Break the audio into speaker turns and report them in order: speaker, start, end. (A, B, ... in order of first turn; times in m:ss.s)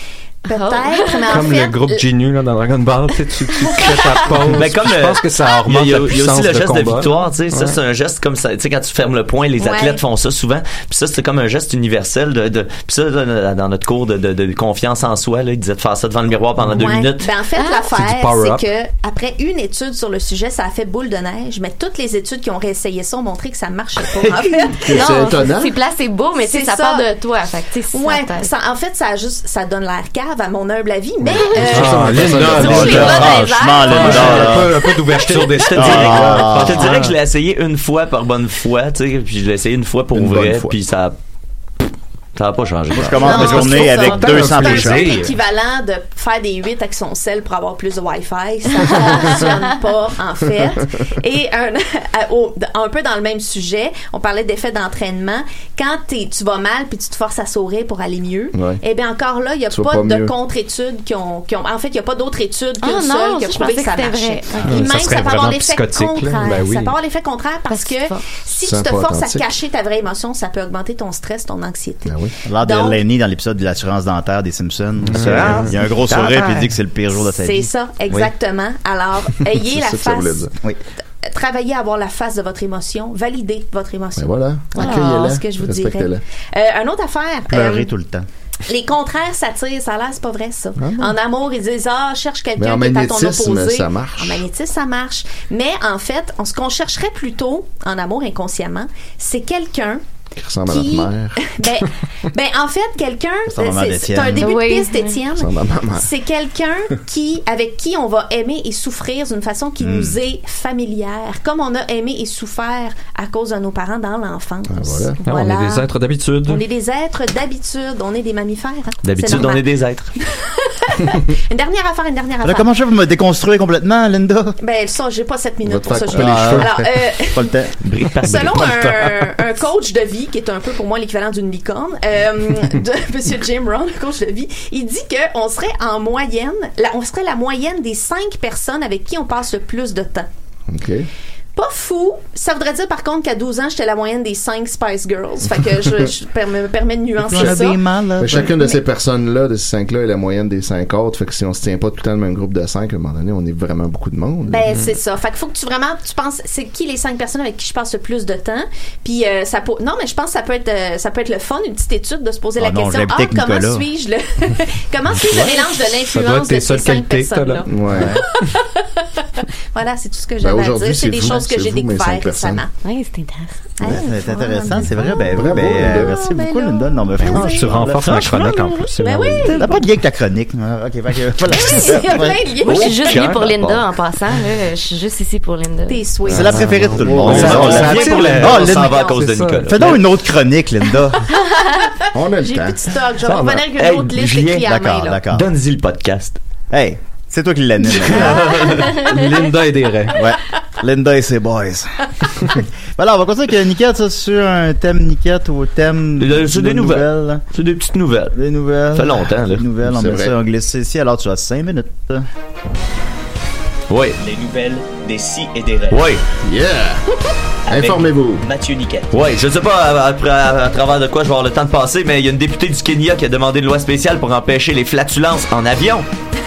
0:00.5-0:01.4 A
0:00.5-0:02.1 B
0:01.3-0:07.8 C
0:03.7-0:04.2 B
0:04.5-0:17.3 D
0:09.6-0:10.0 B
0:16.7-0:25.1 B
0:17.8-0:18.6 C
0:24.8-0:25.8 E
0:24.9-0:28.5 A
0:26.4-0:27.1 B
0:27.9-0:35.7 B
0:31.2-0:33.3 E
0:31.7-0:37.1 C
0:32.5-0:34.8 F
0:34.1-0:34.4 E
0:35.6-0:41.2 D
0:35.8-0:36.9 F
0:40.1-0:40.8 E
0:42.4-0:43.8 D
0:42.9-0:45.2 F
0:43.1-1:13.0 B
0:43.3-0:45.3 C
0:58.5-0:58.8 E
0:59.7-1:00.3 E
1:02.8-1:05.0 A
1:04.6-1:07.0 C
1:07.7-1:08.2 A
1:08.6-1:09.5 E
1:12.1-1:12.4 E
1:12.4-1:18.3 F
1:15.1-1:16.7 C
1:15.2-1:15.6 E
1:17.1-1:20.5 B
1:19.5-1:20.5 E
1:21.2-1:27.9 B
1:24.2-1:26.2 E
1:24.8-1:25.2 A
1:27.5-1:28.3 F
1:28.7-1:40.0 B
1:30.8-1:31.2 E
1:32.6-1:34.5 E
1:40.4-1:41.4 E
1:40.7-1:55.9 B
1:43.5-1:44.6 F
1:44.4-1:45.2 A
1:45.4-1:46.1 E
1:49.8-1:50.2 F
1:54.7-1:55.2 E
1:55.2-1:56.6 C
1:56.4-2:02.7 B
1:59.0-2:00.1 D
1:59.1-1:59.5 C
2:02.4-2:04.6 F
2:04.6-2:07.6 B
2:05.6-2:06.9 E
2:06.1-2:08.1 F
2:07.8-2:08.9 D
2:08.2-2:20.3 B
2:20.7-2:21.1 E
2:21.6-2:28.8 B
2:27.2-2:28.5 F
2:27.3-2:27.6 E
2:28.2-2:34.6 E
2:34.5-2:47.7 B
2:42.6-2:43.9 F
2:45.3-2:47.7 C
2:47.7-2:48.2 E
2:48.3-2:52.7 B
2:50.4-2:52.6 E
2:52.8-2:53.6 A
2:53.8-2:59.9 B
2:53.8-2:58.5 F
2:55.3-2:56.2 E
2:57.2-2:59.6 C
2:59.2-3:02.5 F
3:01.5-3:03.2 B
3:02.6-3:06.0 A
3:02.6-3:03.8 D
3:05.9-3:09.3 B
3:06.3-3:09.0 F
3:06.3-3:09.8 C
3:07.0-3:08.3 E
3:07.3-3:10.0 D
3:09.6-3:11.3 F
3:12.1-3:13.6 E
3:12.4-3:15.2 B
3:13.3-3:13.6 C
3:13.8-3:14.7 D
3:14.6-3:15.5 F
3:15.3-3:16.4 D
3:16.7-3:18.9 F
3:18.5-3:18.8 D
3:19.0-3:20.2 C
3:20.2-3:27.4 F
3:26.2-3:28.4 D
3:28.3-3:32.2 F
3:28.9-3:29.6 D
3:29.8-3:30.3 E
3:33.9-3:34.2 D
3:34.2-3:36.0 G
3:35.9-3:36.2 D
3:36.4-3:37.0 E
3:37.7-3:38.5 E
3:37.7-3:38.0 G
3:38.5-3:39.1 G
3:39.1-3:46.1 D